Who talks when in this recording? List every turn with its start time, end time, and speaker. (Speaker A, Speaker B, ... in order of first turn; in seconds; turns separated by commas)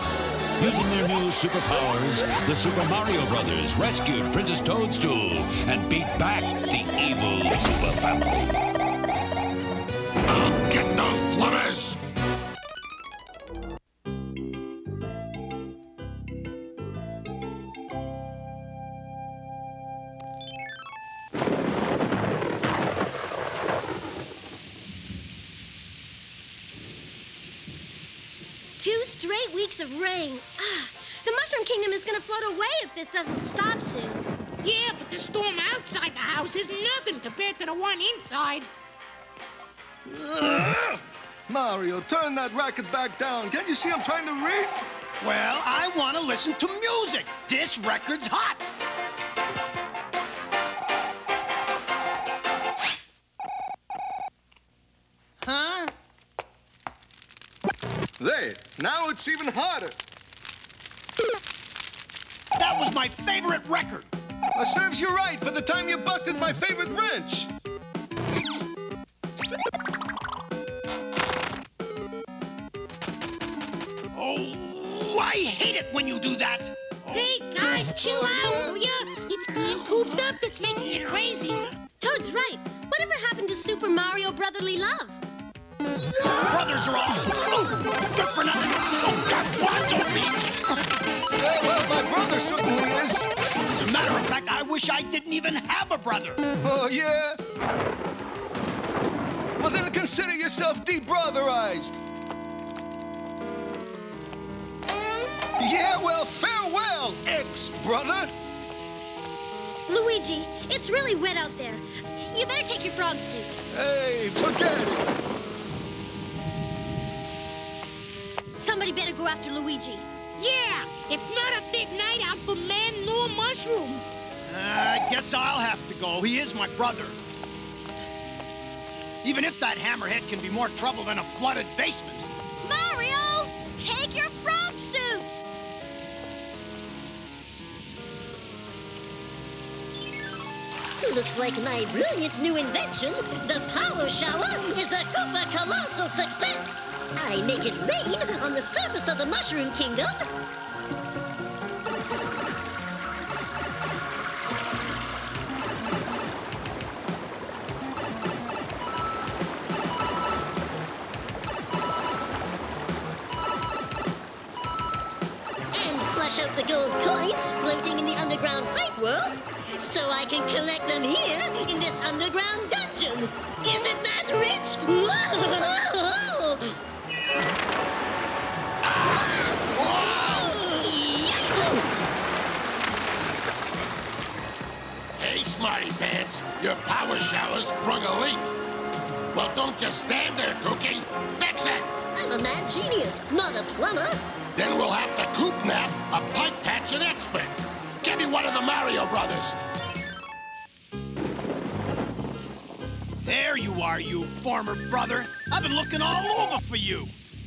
Speaker A: 0.6-8.5, Speaker B: 10.3-12.0, Speaker C: 28.8-34.3, Speaker D: 34.6-38.7, Speaker E: 40.1-41.0, Speaker F: 41.5-44.9, Speaker E: 45.2-48.7, Speaker E: 55.4-55.9, Speaker F: 58.2-60.0, Speaker E: 62.6-64.1, Speaker F: 64.5-67.5, Speaker E: 74.1-77.3, Speaker D: 77.1-81.7, Speaker C: 82.0-85.2, Speaker E: 86.2-90.8, Speaker F: 91.4-93.3, Speaker E: 93.7-96.4, Speaker F: 96.6-97.4, Speaker F: 99.6-102.0, Speaker F: 105.6-108.3, Speaker C: 109.9-113.6, Speaker F: 113.7-115.1, Speaker C: 118.6-120.1, Speaker D: 120.4-124.0, Speaker E: 124.5-127.2, Speaker E: 129.2-132.3, Speaker C: 132.6-135.4, Speaker G: 141.0-150.2, Speaker G: 165.7-176.7, Speaker B: 178.8-180.6, Speaker G: 180.2-181.8, Speaker B: 185.1-188.5, Speaker B: 189.3-191.9, Speaker G: 192.1-194.2, Speaker B: 194.6-199.6, Speaker E: 203.2-207.1